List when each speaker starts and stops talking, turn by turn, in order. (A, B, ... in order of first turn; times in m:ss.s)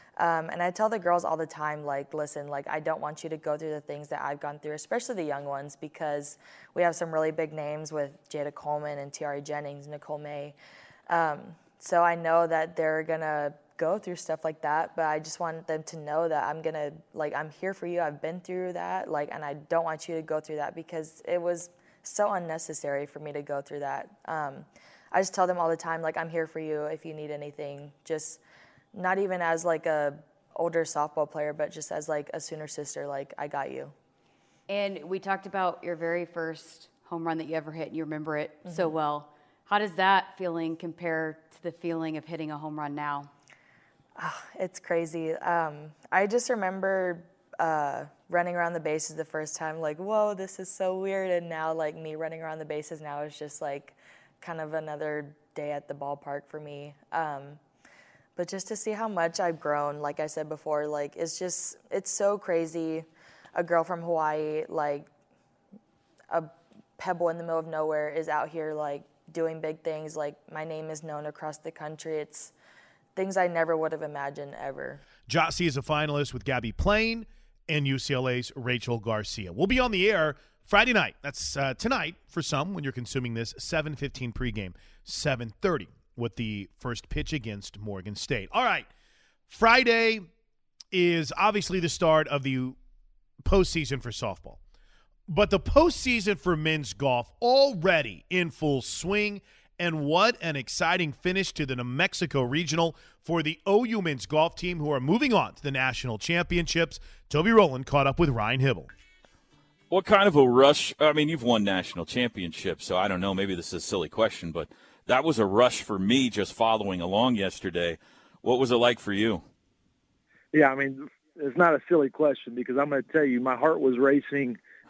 0:00.2-0:10.6 A
0:11.1-0:28.4 A
0:28.9-0:33.9 A
0:34.7-0:43.3 B
0:44.2-0:57.6 A
0:58.4-1:05.1 A
1:06.3-1:12.5 A
1:13.2-1:15.0 A
1:15.3-1:28.9 C
1:29.5-1:30.3 C
1:30.9-1:32.8 C
1:33.4-1:34.6 C
1:35.3-1:48.9 C
1:49.9-1:59.4 D
2:00.5-2:04.6 E